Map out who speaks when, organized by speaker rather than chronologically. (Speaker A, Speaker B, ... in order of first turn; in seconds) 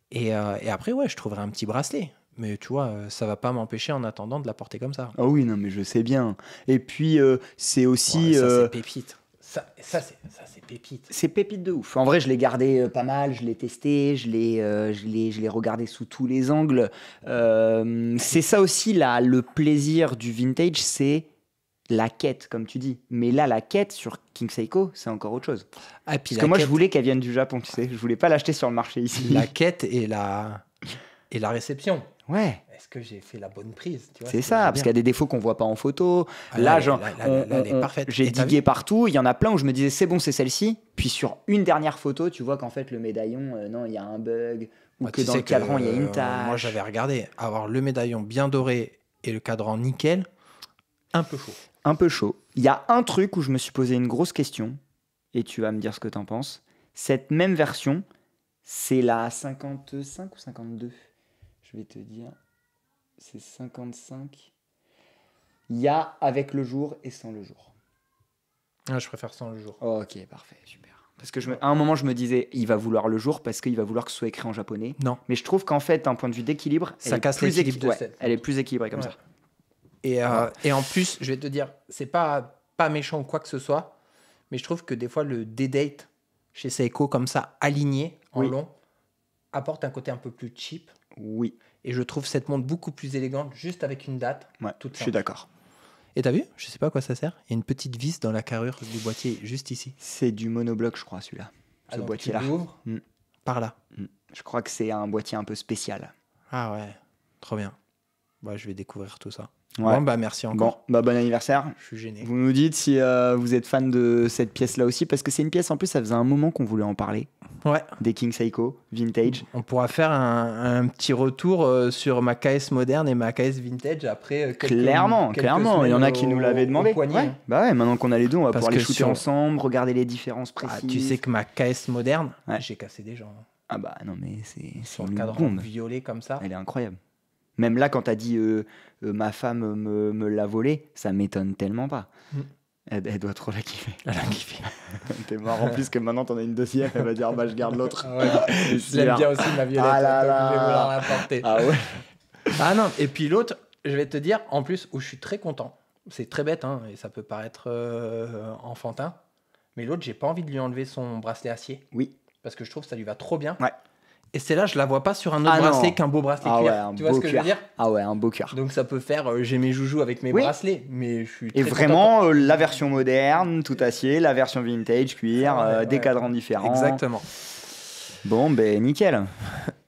Speaker A: 0.1-5.2, 8.1-11.1, 26.1-26.8, 29.2-30.6, 31.3-32.1, 32.7-34.9, 36.5-38.6, 45.0-50.3, 51.1-51.6, 68.9-69.8, 77.0-78.4, 80.0-83.9, 84.5-88.7, 89.5-90.9, 91.8-95.2, 96.2-100.0, 101.9-102.8, 103.5-103.8, 106.5-107.8, 108.4-110.8, 111.8-112.3, 117.6-117.9, 119.3-127.4, 128.5-129.2, 130.6-133.4, 134.8-136.5, 144.0-144.8, 148.0-151.7, 152.6-159.2, 159.8-161.8, 162.4-163.6, 164.3-167.7, 168.5-172.7, 175.3-177.3
Speaker B: 5.2-8.7, 11.1-21.3, 21.9-25.7, 26.3-29.5, 32.3-32.6, 34.3-46.8, 51.9-54.8, 55.3-58.0, 58.6-61.0, 61.6-62.4, 63.2-64.5, 65.7-67.7, 69.8-79.2, 91.2-91.6, 94.6-95.5, 100.0-103.0, 104.0-106.1, 109.8-117.3, 118.0-119.5, 124.6-131.2, 133.7-135.7, 136.4-137.0, 137.6-142.1, 142.9-144.0, 144.9-152.0, 165.4-168.6, 171.5-177.0, 178.2-179.3